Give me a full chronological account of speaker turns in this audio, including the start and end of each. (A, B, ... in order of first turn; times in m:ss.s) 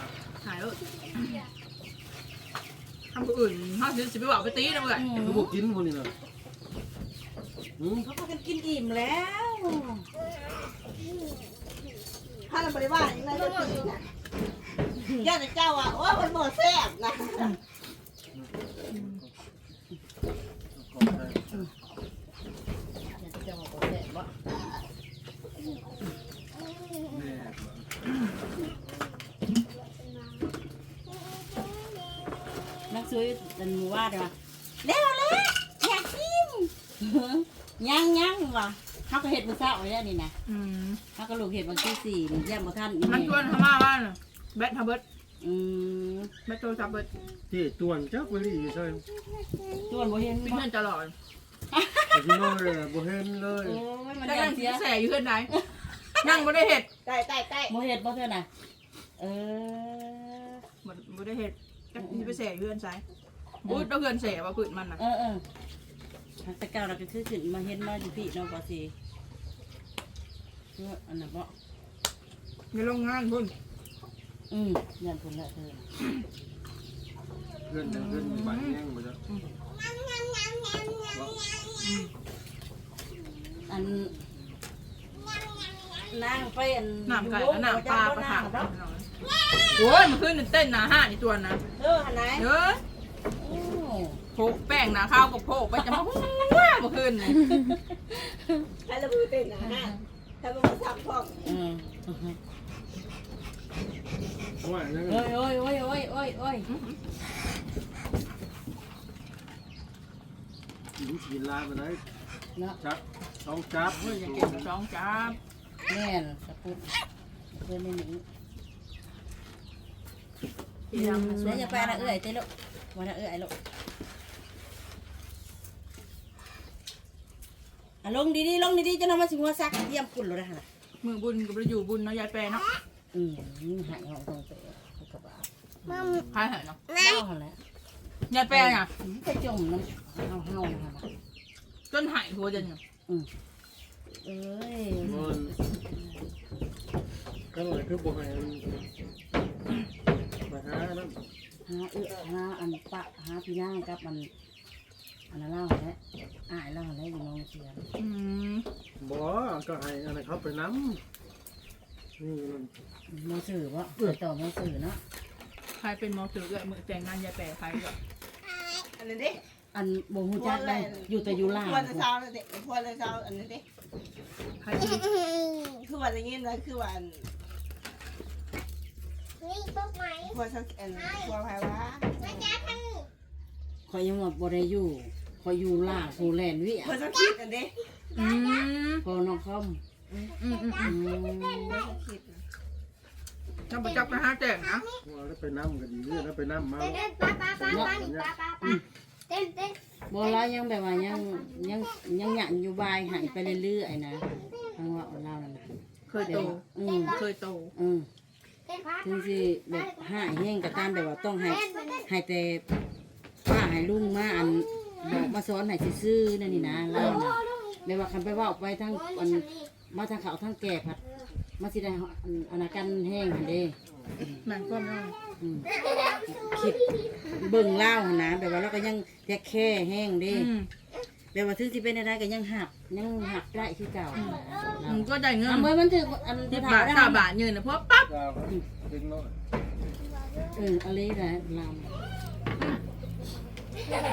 0:00.4-0:01.4 A
0:03.1-0:05.0 A
0:04.9-0:05.5 B
0:05.2-0:06.1 C
0:07.8-0:08.0 C
0:08.0-0:10.1 B
0:12.5-0:14.0 D
0:15.0-0:15.2 B
0:15.2-0:17.6 D
0:18.3-0:19.3 C
0:20.8-0:21.7 C
0:23.1-0:24.3 B
0:27.1-0:27.9 C
0:32.9-0:40.3 B
0:40.5-0:41.0 A
0:41.2-0:43.6 B
0:43.1-0:45.0 A
0:45.4-0:46.3 B
0:46.5-0:47.1 A
0:47.5-0:49.0 C
0:49.4-0:50.7 B
0:50.4-0:51.1 A
0:51.7-0:52.4 B
0:52.1-0:53.8 C
0:53.5-0:56.3 B
0:54.2-0:55.5 A
0:56.2-0:56.5 D
0:56.2-0:56.9 A
0:57.0-0:57.8 D
0:57.6-0:58.5 B
0:59.2-1:00.6 B
1:00.8-1:03.0 A
1:02.0-1:02.4 B
1:03.6-1:05.0 A
1:05.0-1:05.4 B
1:06.4-1:08.9 B
1:10.8-1:11.5 B
1:12.7-1:13.5 A
1:14.5-1:15.9 B
1:17.7-1:19.2 C
1:17.8-1:18.8 A
1:21.1-1:21.4 C
1:21.8-1:22.1 A
1:23.7-1:24.2 B
1:25.9-1:28.7 B
1:27.1-1:29.0 A
1:29.8-1:31.6 A
1:31.8-1:32.5 B
1:32.4-1:32.8 A
1:33.4-1:34.2 B
1:34.3-1:37.4 A
1:35.7-1:36.5 B
1:37.2-1:38.7 B
1:38.8-1:41.6 D
1:39.6-1:40.0 B
1:41.4-1:42.4 B
1:44.6-1:45.3 C
1:45.1-1:46.7 B
1:46.7-1:47.0 A
1:51.0-1:52.0 C
1:52.8-1:54.7 C
1:53.9-1:55.4 A
1:55.9-1:57.0 B
1:57.5-1:58.2 B
2:00.9-2:03.5 B
2:00.9-2:02.2 A
2:08.0-2:10.6 B
2:11.0-2:12.6 A
2:13.1-2:15.5 B
2:15.9-2:16.3 C
2:16.3-2:16.8 A
2:17.0-2:17.6 B
2:18.3-2:18.9 A
2:18.5-2:21.0 B
2:21.9-2:22.8 A
2:24.2-2:26.3 B
2:25.0-2:25.5 C
2:27.5-2:28.8 C
2:30.5-2:31.2 C
2:31.6-2:34.3 B
2:35.3-2:37.8 B
2:38.0-2:38.7 A
2:39.0-2:41.0 C
2:42.2-2:42.7 C
2:43.1-2:45.0 B
2:45.8-2:48.0 A
2:49.0-2:49.4 D
2:49.7-2:52.1 B
2:50.4-2:53.6 D
2:54.6-2:55.1 A
2:55.8-2:57.3 D
3:00.2-3:02.8 D
3:03.9-3:07.0 B
3:06.8-3:07.8 D
3:08.2-3:09.0 A
3:09.0-3:09.8 B
3:10.4-3:11.0 A
3:10.8-3:11.8 B
3:11.7-3:12.4 D
3:13.7-3:14.8 A
3:15.0-3:18.6 C
3:17.6-3:18.0 B
3:20.1-3:25.6 B
3:26.1-3:27.7 A
3:26.2-3:27.1 B
3:27.8-3:28.1 B
3:28.9-3:32.6 B
3:33.4-3:43.8 B
3:36.5-3:37.0 C
3:36.9-3:37.2 A
3:44.3-3:45.2 A
3:45.4-3:50.6 B
3:50.3-3:50.7 A
3:51.3-3:57.3 B
3:54.1-3:55.7 A
3:56.5-3:58.1 A
3:58.1-3:59.4 C
4:00.5-4:01.9 B